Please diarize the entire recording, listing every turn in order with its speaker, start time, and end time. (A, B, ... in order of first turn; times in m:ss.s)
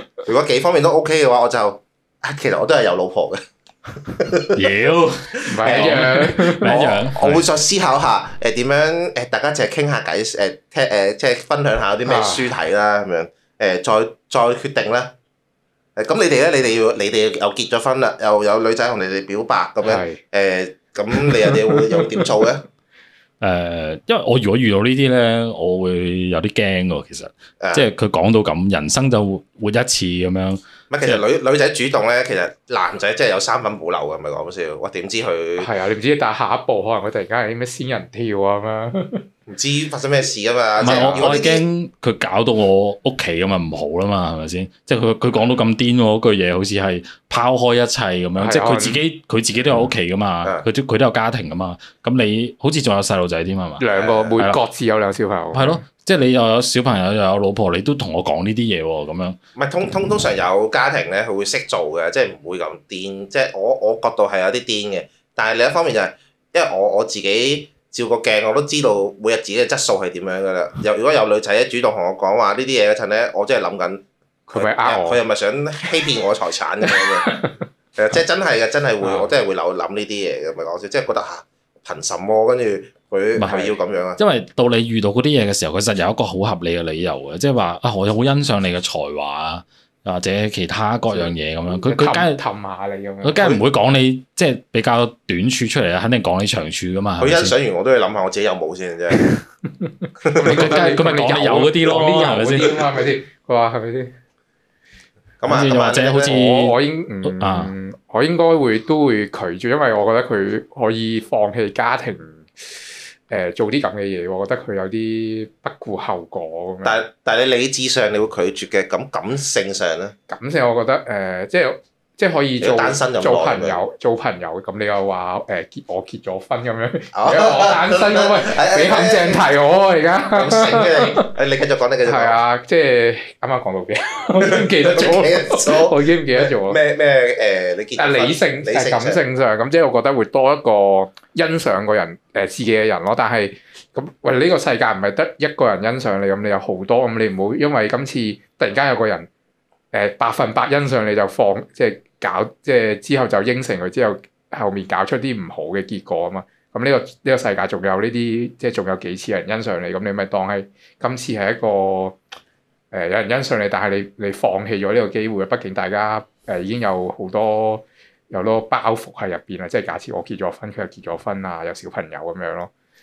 0:00.2-0:03.4 A
0:04.0-0:04.6 A
0:04.5-0:07.4 B
0:05.4-0:07.0 C
0:05.6-0:15.1 A
0:12.0-0:12.5 C
0:16.0-0:22.6 A
0:19.8-0:20.2 C
0:21.2-0:22.2 C
0:23.4-0:31.2 B
0:30.9-0:35.7 A
0:35.6-0:39.2 C
0:39.5-0:41.6 A
0:40.8-0:53.8 B
0:40.8-0:41.3 C
0:48.4-0:49.0 C
0:53.8-0:55.8 C
0:53.9-0:54.5 A
0:55.5-0:59.4 B
0:59.6-1:17.4 A
1:14.5-1:15.2 C
1:16.9-1:17.5 C
1:18.0-1:24.2 A
1:19.0-1:19.3 C
1:23.4-1:23.6 B
1:23.4-1:23.8 C
1:24.2-1:32.4 B
1:31.1-1:33.6 C
1:33.2-1:37.5 B
1:37.2-1:39.3 A
1:39.1-1:44.1 C
1:40.2-1:41.1 A
1:40.4-1:42.7 B
1:45.4-1:46.4 A
1:45.4-1:47.7 B
1:46.2-1:57.0 C
1:56.8-2:00.1 A
2:00.3-2:11.3 C
2:02.6-2:03.8 A
2:07.1-2:09.5 A
2:10.3-2:12.4 A
2:12.0-2:16.8 C
2:14.4-2:19.2 A
2:18.0-2:29.3 C
2:29.9-2:42.2 C
2:42.9-2:52.7 C